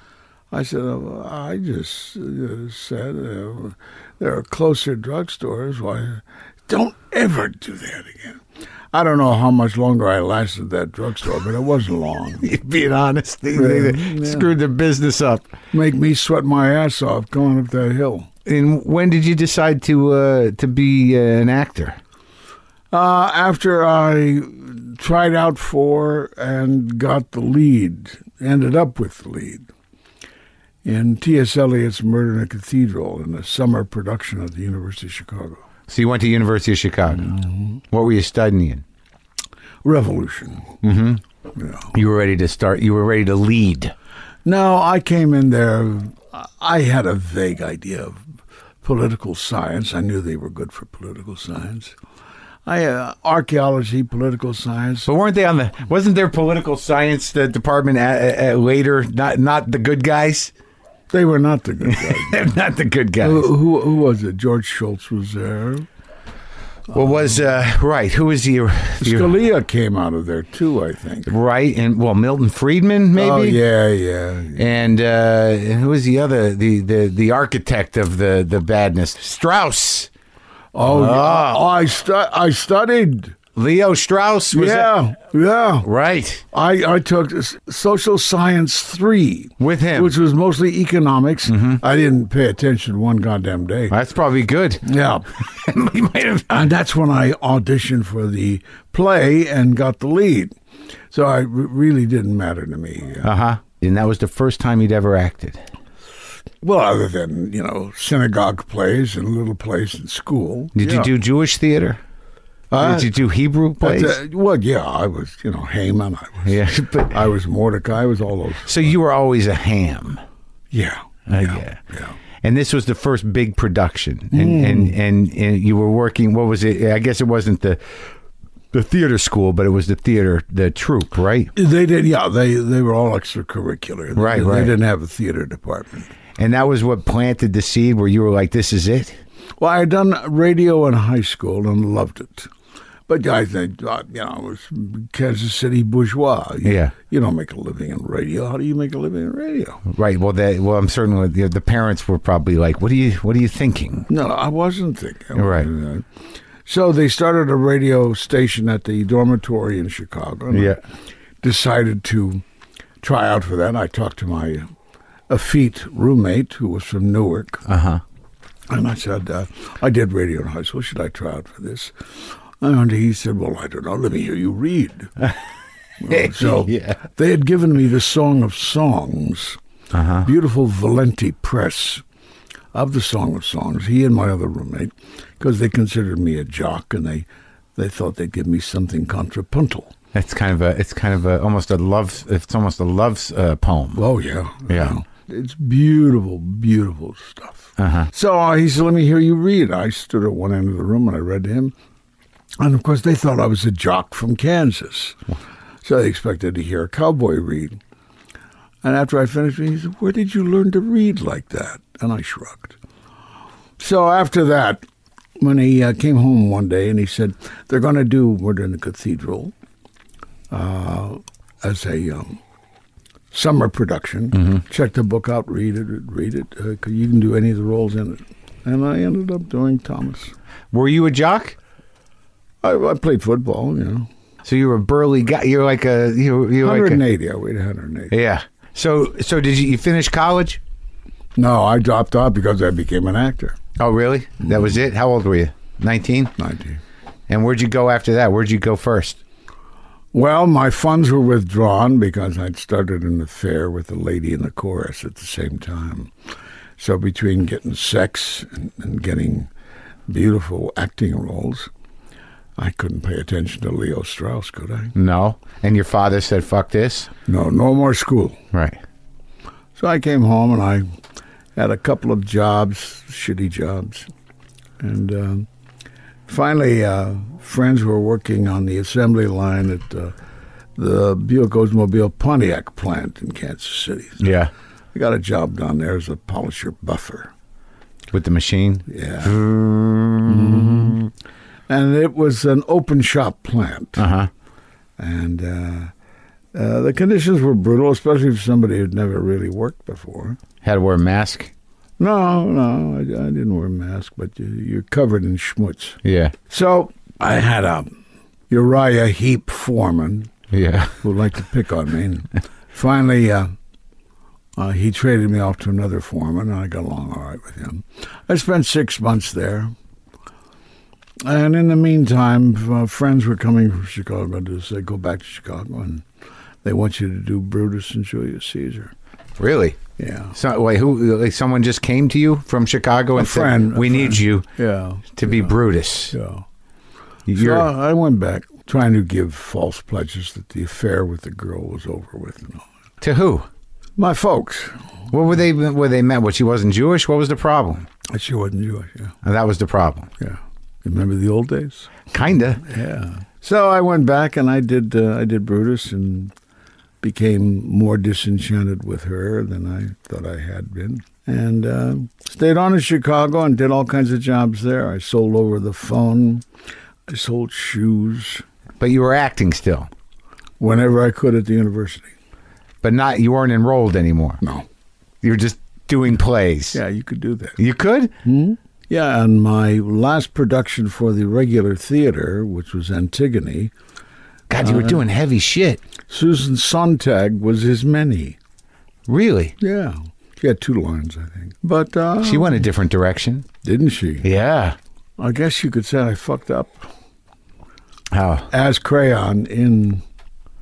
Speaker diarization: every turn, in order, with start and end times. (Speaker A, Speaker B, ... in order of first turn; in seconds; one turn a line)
Speaker A: 0.5-12.5
Speaker B: 12.4-15.5
Speaker A: 13.5-14.5
Speaker A: 15.7-18.3
Speaker B: 18.4-22.0
Speaker A: 22.9-29.6
Speaker A: 30.8-35.6
Speaker B: 35.9-37.4
Speaker A: 37.2-37.8
Speaker B: 37.9-38.8
Speaker A: 39.8-40.7
Speaker B: 40.8-41.2
Speaker A: 41.5-41.9
Speaker B: 41.9-43.9
Speaker A: 44.4-48.2
Speaker A: 48.8-51.9
Speaker A: 52.6-55.1
Speaker B: 55.1-60.5
Speaker A: 61.1-62.5
Speaker B: 61.8-63.5
Speaker A: 63.2-65.8
Speaker B: 66.9-69.3
Speaker A: 69.0-71.3
Speaker B: 71.3-73.6
Speaker A: 73.1-74.7
Speaker B: 74.5-80.1
Speaker A: 80.7-83.4
Speaker B: 80.8-81.7
Speaker B: 83.5-84.9
Speaker A: 84.5-85.9
Speaker B: 85.8-86.4
Speaker A: 86.5-94.0
Speaker B: 89.6-90.1
Speaker B: 91.5-91.8
Speaker B: 93.9-96.6
Speaker A: 94.8-95.3
Speaker A: 96.5-100.5
Speaker A: 101.1-103.3
Speaker B: 103.2-105.6
Speaker A: 106.6-111.1
Speaker B: 110.8-112.0
Speaker A: 112.7-113.1
Speaker B: 112.8-114.2
Speaker A: 113.8-118.9
Speaker B: 116.4-117.2
Speaker B: 118.7-120.2
Speaker A: 120.7-122.2
Speaker B: 121.3-121.8
Speaker B: 122.4-127.8
Speaker A: 124.3-125.0
Speaker B: 128.7-131.5
Speaker A: 131.5-136.1
Speaker B: 134.1-134.7
Speaker B: 136.4-139.2
Speaker A: 139.6-142.5
Speaker A: 143.1-149.8
Speaker B: 146.6-146.9
Speaker B: 149.8-154.1
Speaker A: 154.1-156.1
Speaker B: 155.3-155.7
Speaker A: 156.6-160.8
Speaker B: 160.5-160.8
Speaker A: 161.4-162.4
Speaker A: 163.0-164.6
Speaker A: 165.3-167.6
Speaker B: 167.7-168.0
Speaker A: 168.7-175.2
Speaker A: 176.0-179.6
Speaker B: 176.1-177.0
Speaker B: 179.9-180.3
Speaker A: 180.2-182.0
Speaker A: 182.7-189.9
Speaker B: 190.1-194.0
Speaker A: 193.9-201.7
Speaker B: 194.7-194.9
Speaker B: 197.8-198.1
Speaker A: 202.6-205.2
Speaker A: 205.8-207.8
Speaker A: 208.8-212.8
Speaker A: 213.8-214.8
Speaker A: 215.4-219.5
Speaker A: 220.5-222.4
Speaker A: 223.3-230.3
Speaker B: 230.7-231.6
Speaker A: 232.6-234.1
Speaker B: 234.4-237.0
Speaker A: 236.6-238.1
Speaker B: 238.1-240.6
Speaker A: 241.3-243.6
Speaker B: 243.8-246.3
Speaker A: 246.4-246.8
Speaker B: 247.3-249.2
Speaker A: 250.1-256.1
Speaker A: 256.8-259.5
Speaker A: 260.1-261.7
Speaker A: 262.6-264.9
Speaker B: 264.9-267.1
Speaker A: 267.3-268.4
Speaker B: 268.5-268.8
Speaker A: 269.8-270.9
Speaker A: 271.6-274.1
Speaker A: 274.8-275.5
Speaker A: 276.3-280.1
Speaker A: 280.8-284.3
Speaker B: 284.2-284.5
Speaker A: 284.9-287.3
Speaker B: 288.1-291.1
Speaker A: 288.9-289.4
Speaker A: 290.2-291.0
Speaker A: 291.7-294.1
Speaker B: 294.0-294.3
Speaker A: 295.0-295.9
Speaker A: 296.5-300.4
Speaker B: 300.6-301.5
Speaker A: 302.0-307.9
Speaker B: 306.0-306.3
Speaker A: 308.5-310.3
Speaker B: 310.5-311.0
Speaker A: 311.0-313.5
Speaker A: 314.6-319.7
Speaker A: 321.2-326.0
Speaker A: 326.6-328.9
Speaker B: 329.4-329.8
Speaker A: 330.0-330.3
Speaker B: 330.3-334.5
Speaker A: 333.1-335.5
Speaker B: 335.1-336.1
Speaker A: 336.1-336.4
Speaker B: 337.3-337.7
Speaker A: 337.3-342.6
Speaker B: 343.0-343.5
Speaker A: 344.0-344.8
Speaker B: 345.1-347.9
Speaker A: 348.1-349.1
Speaker B: 349.2-350.1
Speaker A: 350.2-356.3
Speaker B: 352.1-352.6
Speaker A: 357.0-366.4
Speaker A: 367.1-368.4
Speaker B: 368.8-369.9
Speaker A: 370.6-372.1
Speaker B: 372.8-374.4
Speaker B: 375.2-376.8
Speaker A: 376.7-377.6
Speaker B: 377.6-378.1
Speaker A: 378.2-383.7
Speaker B: 384.5-385.8
Speaker A: 384.6-385.0
Speaker A: 386.1-388.4
Speaker B: 389.1-389.5
Speaker A: 389.6-392.6
Speaker B: 392.2-393.5
Speaker A: 393.6-394.3
Speaker B: 394.2-394.8
Speaker A: 395.2-396.9
Speaker B: 398.1-398.5
Speaker A: 398.5-400.0